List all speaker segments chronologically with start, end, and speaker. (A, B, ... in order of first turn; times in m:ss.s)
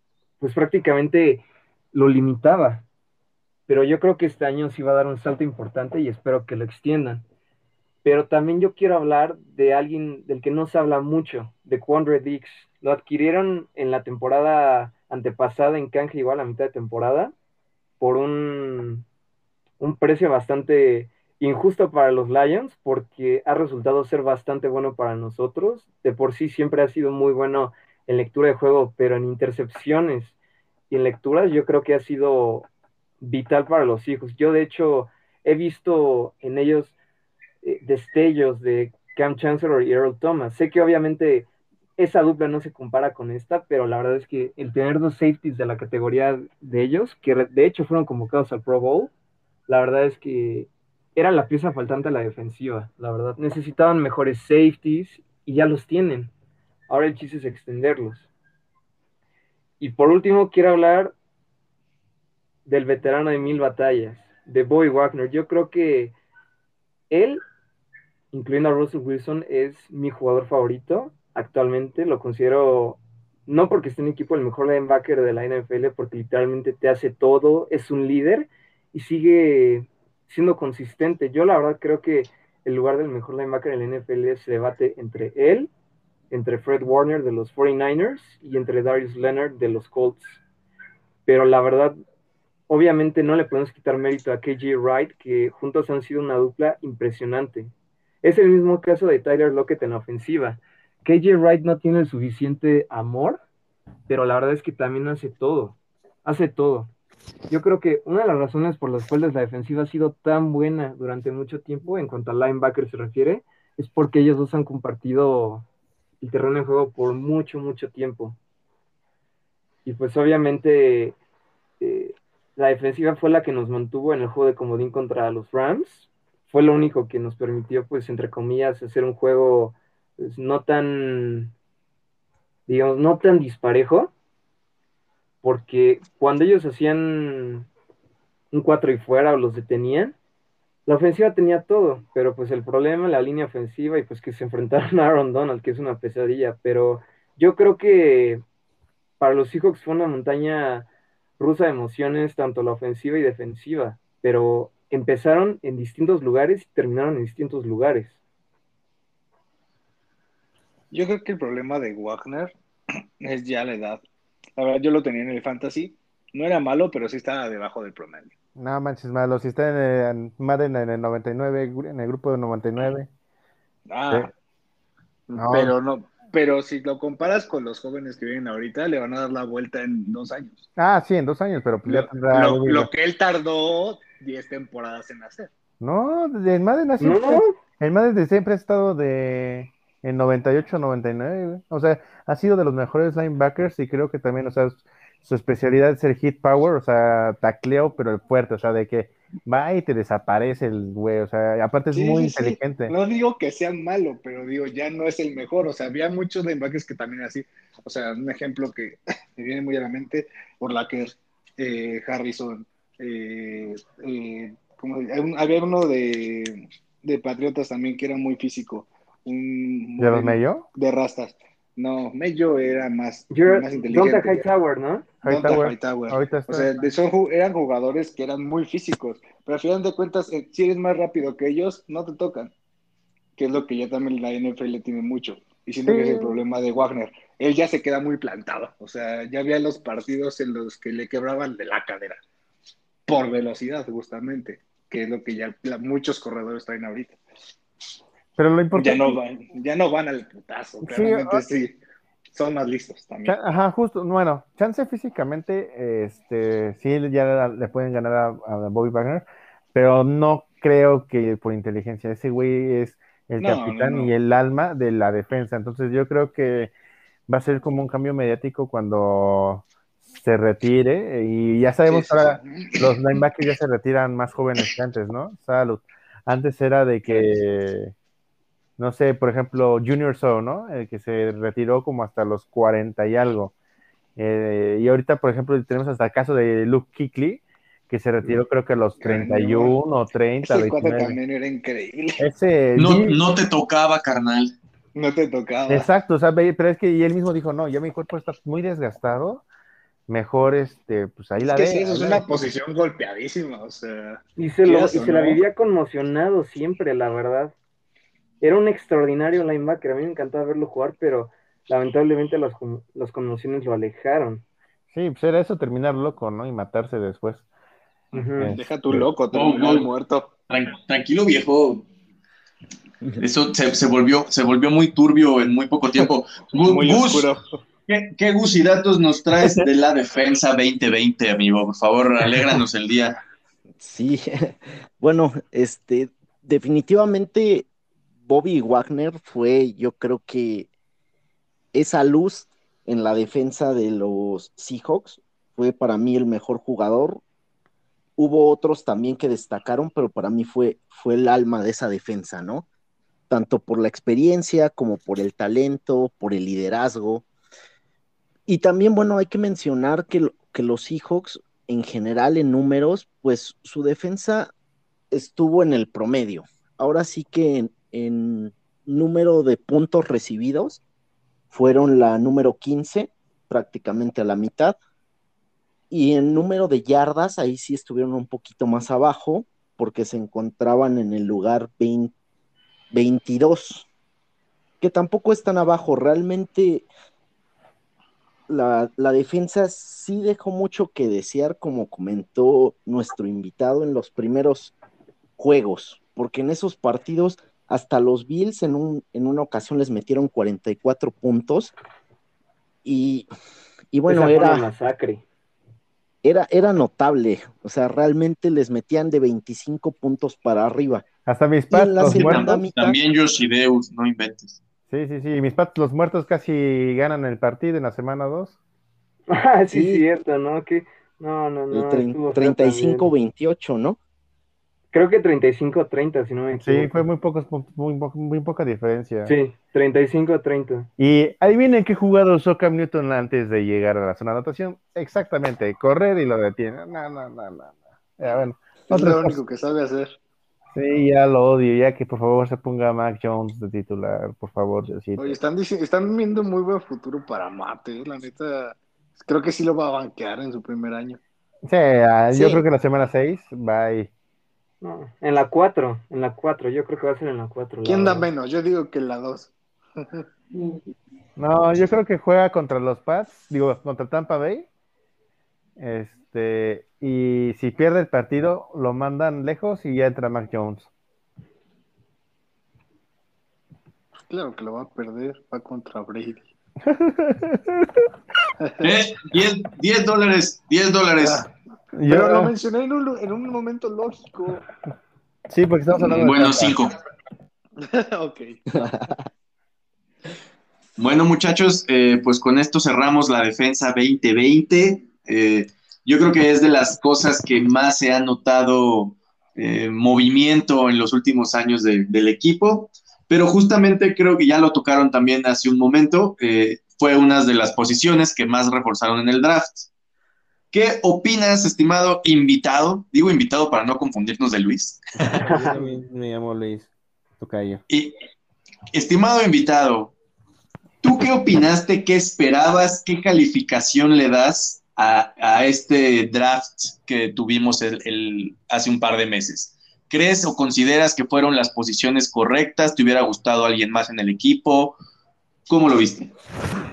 0:00.4-0:02.8 A
0:03.7-0:07.2 A
0:08.0-0:17.3 A
0:18.0-0:19.0 A
0:19.8-0:30.3 A
0:30.9-0:32.7 A
0:33.2-0:37.0 A
0:37.6-0:41.5 A
0:42.0-0:49.1 A
0:49.7-0:56.3 A
0:56.9-0:58.3 A
0:59.8-1:01.1 A
1:02.6-1:06.1 A
1:07.1-1:07.4 A
1:08.3-1:25.7 A
1:26.3-1:30.4 A
1:31.2-1:32.0 A
1:32.7-1:37.7 A
1:38.2-1:43.4 A
1:44.1-1:46.9 A
1:47.5-1:55.6 A
1:56.2-1:58.4 A
1:59.8-2:01.2 A
2:01.8-2:11.5 A
2:12.7-2:14.1 A
2:15.4-2:17.7 A
2:18.5-2:20.2 A
2:20.8-2:28.4 A
2:29.2-2:30.9 A
2:31.4-2:38.2 A
2:40.9-2:42.5 B
2:43.2-2:44.0 B
2:44.6-2:48.3 B
2:48.6-2:53.1 C
2:53.9-2:54.3 B
2:55.3-3:00.7 B
2:55.4-2:55.7 C
3:00.8-3:02.9 C
3:01.8-3:05.5 B
3:05.8-3:22.9 C
3:07.0-3:07.6 A
3:21.9-3:44.5 B
3:40.0-3:40.6 C
3:43.3-3:45.1 A
3:45.2-3:46.8 C
3:45.2-3:52.5 B
3:53.4-4:02.2 B
3:55.8-3:56.4 C
4:03.1-4:07.2 B
4:08.4-4:09.2 C
4:08.7-4:11.8 B
4:10.8-4:11.4 C
4:12.3-4:13.4 B
4:13.3-4:26.7 C
4:23.4-4:24.1 B
4:27.3-4:37.9 C
4:31.9-4:32.9 B
4:38.8-4:43.5 C
4:44.2-4:51.2 C
4:49.0-4:49.8 B
4:50.4-4:52.2 B
4:52.2-4:53.2 C
4:52.8-4:54.5 D
4:54.9-4:55.9 B
4:55.7-4:59.4 C
5:00.1-5:02.3 C
5:01.4-5:05.4 B
5:04.4-5:07.5 A
5:08.4-5:14.4 A
5:14.9-5:17.4 C
5:18.1-5:18.5 A
5:18.1-5:20.3 B
5:18.4-5:19.1 C
5:19.3-5:19.9 D
5:20.5-5:21.8 D
5:23.2-5:27.3 D
5:26.7-5:27.4 B
5:27.9-5:33.2 D
5:33.8-5:37.7 E
5:38.2-5:40.7 E
5:41.7-5:47.2 E
5:48.2-5:52.6 E
5:53.3-5:57.2 E
5:58.5-6:04.5 E
6:05.1-6:10.8 E
6:11.5-6:14.8 E
6:15.9-6:22.1 E
6:22.9-6:23.9 E
6:24.8-6:26.9 E
6:28.5-6:34.7 E
6:35.4-6:41.7 E
6:42.8-6:43.3 E
6:43.9-6:44.7 E
6:44.1-6:45.2 A
6:46.2-6:51.0 E
6:51.2-6:52.6 C
6:51.7-6:53.0 E
6:52.1-6:54.6 D
6:54.9-6:58.5 C
6:59.3-7:03.1 A
6:59.7-7:00.0 E
7:01.7-7:04.0 E
7:04.9-7:06.9 A
7:06.6-7:09.4 C
7:09.2-7:10.9 A
7:11.0-7:19.4 C
7:18.9-7:20.1 B
7:20.7-7:25.4 C
7:25.2-7:31.2 B
7:31.7-7:34.1 C
7:32.3-7:32.6 B
7:34.8-7:38.3 A
7:37.8-7:40.2 B
7:41.4-7:44.7 C
7:45.8-7:50.9 C
7:54.3-7:56.5 B
7:56.8-7:58.0 C
7:58.6-7:58.9 B
7:58.8-8:01.4 D
8:01.2-8:01.5 B
8:02.0-8:02.5 C
8:02.1-8:04.6 B
8:05.5-8:06.8 C
8:06.1-8:06.9 D
8:07.8-8:08.6 B
8:11.0-8:29.9 D
8:30.7-8:35.0 D
8:35.4-8:36.9 C
8:35.4-8:35.8 A
8:37.4-8:37.8 C
8:37.9-8:38.1 D
8:38.9-8:40.1 D
8:41.0-8:55.0 D
8:55.7-8:56.3 D